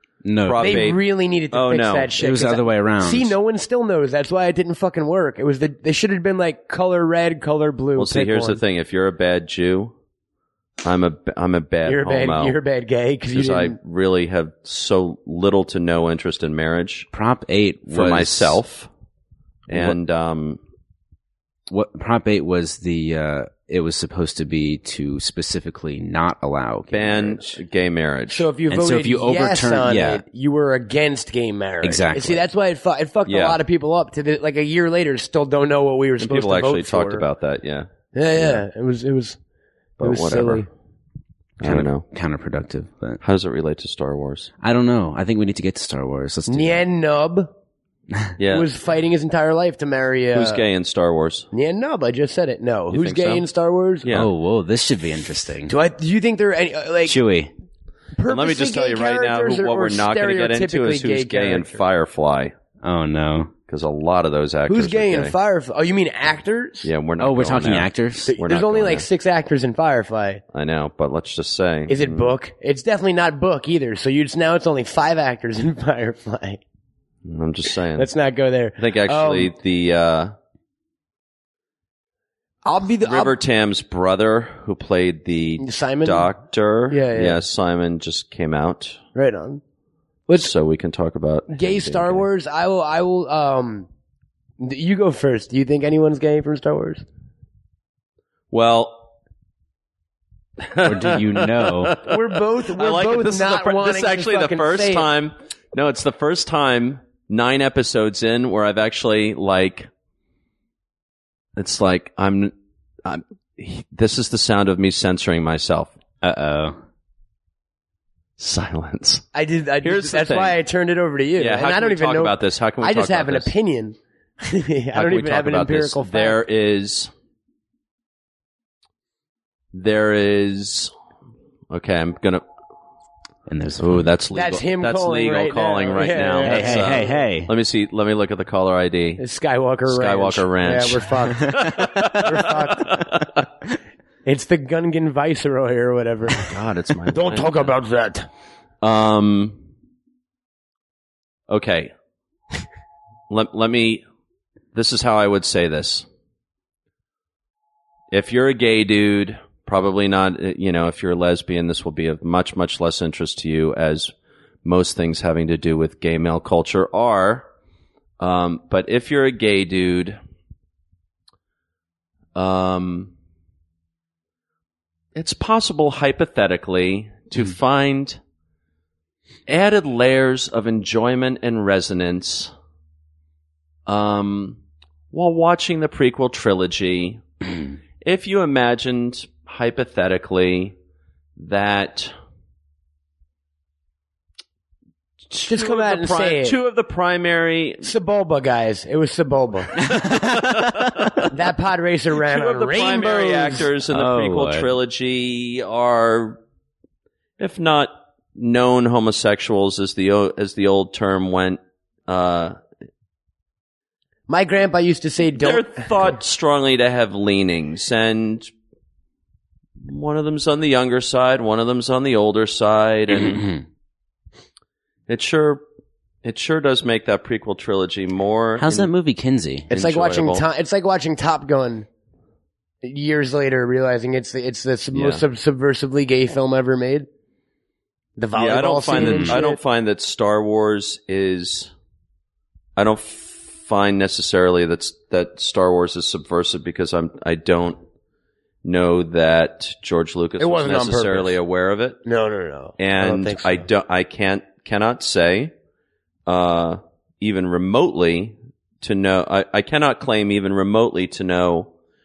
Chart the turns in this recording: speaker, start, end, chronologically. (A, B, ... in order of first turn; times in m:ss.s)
0:00.2-0:00.9 A
0:00.4-0:02.1 B
0:00.6-0:08.6 C
0:02.2-0:03.4 A
0:08.0-0:09.9 B
0:10.8-0:12.6 B
0:11.9-0:13.8 C
0:13.3-0:17.1 B
0:17.1-0:18.6 A
0:17.9-0:18.9 B
0:19.7-0:20.6 B
0:19.7-0:20.0 A
0:21.7-0:27.6 A
0:26.9-0:28.5 B
0:28.3-0:37.2 C
0:28.7-0:30.2 A
0:31.8-0:32.4 A
0:33.3-0:33.6 B
0:36.2-0:38.6 B
0:38.1-0:39.4 C
0:40.0-0:40.6 B
0:40.0-0:40.7 C
0:41.6-0:42.0 B
0:41.6-0:43.2 A
0:43.2-0:44.5 B
0:44.6-0:46.8 A
0:46.5-0:47.5 C
0:48.4-0:48.7 B
0:48.5-0:50.6 C
0:50.3-0:51.5 B
0:51.5-0:54.1 C
0:52.9-0:53.4 B
0:54.0-0:54.3 B
0:54.1-0:55.7 A
0:55.7-0:57.2 C
0:57.0-0:57.5 A
0:58.2-1:01.8 C
0:58.3-1:02.5 B
1:02.8-1:03.5 A
1:03.7-1:05.3 B
1:04.7-1:06.9 C
1:06.8-1:09.1 B
1:07.2-1:08.4 A
1:08.3-1:10.4 C
1:10.5-1:12.4 B
1:11.9-1:16.6 C
1:17.2-1:18.1 B
1:18.0-1:19.5 C
1:18.8-1:20.3 B
1:22.6-1:23.3 C
1:23.0-1:29.0 B
1:25.6-1:26.3 C
1:26.9-1:27.4 C
1:29.1-1:29.6 C
1:30.4-1:32.3 B
1:31.5-1:33.9 C
1:34.6-1:37.0 C
1:38.5-1:39.1 B
1:40.6-1:49.9 B
1:40.8-1:42.0 A
1:42.0-1:45.0 C
1:51.6-1:52.5 B
1:53.0-1:55.9 B
1:56.2-1:56.8 A
1:58.4-1:59.2 B
1:59.3-2:06.4 C
1:59.8-2:00.6 B
2:01.4-2:03.5 B
2:04.9-2:07.1 B
2:09.7-2:10.9 B
2:11.7-2:12.4 B
2:13.5-2:14.1 A
2:13.8-2:19.2 B
2:14.3-2:17.2 C
2:16.4-2:17.5 A
2:19.2-2:23.1 C
2:19.9-2:23.4 B
2:21.5-2:22.1 A
2:24.2-2:26.5 C
2:26.4-2:27.7 B
2:27.1-2:28.3 C
2:28.8-2:29.6 B
2:31.5-2:31.9 B
2:33.3-2:34.0 B
2:34.7-2:36.0 B
2:38.1-2:44.1 B
2:44.6-2:47.4 B
2:48.2-2:50.2 B
2:52.3-2:53.1 B
2:55.1-2:58.2 B
2:59.5-3:02.5 B
3:03.9-3:04.6 B
3:05.1-3:07.2 B
3:08.0-3:10.7 B
3:11.4-3:12.1 B
3:15.3-3:17.9 B
3:15.4-3:16.6 C
3:17.8-3:19.8 C
3:19.9-3:21.1 A
3:20.0-3:21.3 B
3:21.3-3:23.7 C
3:22.2-3:26.4 B
3:23.9-3:24.7 A
3:27.4-3:32.6 B
3:34.3-3:36.1 C
3:35.4-3:38.5 B
3:39.8-3:43.4 B
3:43.1-3:43.6 A
3:45.1-3:45.6 B
3:46.2-3:48.9 B
3:48.6-3:49.7 A
3:49.7-3:51.9 C
3:49.7-3:50.4 B
3:52.8-3:57.1 C
3:54.9-3:55.2 B
3:58.2-3:59.6 C
3:58.3-4:01.7 B
3:58.9-3:59.4 A
4:02.8-4:07.8 B
4:08.6-4:12.0 B
4:10.4-4:11.4 C
4:12.0-4:13.7 C
4:12.8-4:15.5 B
4:16.3-4:21.7 B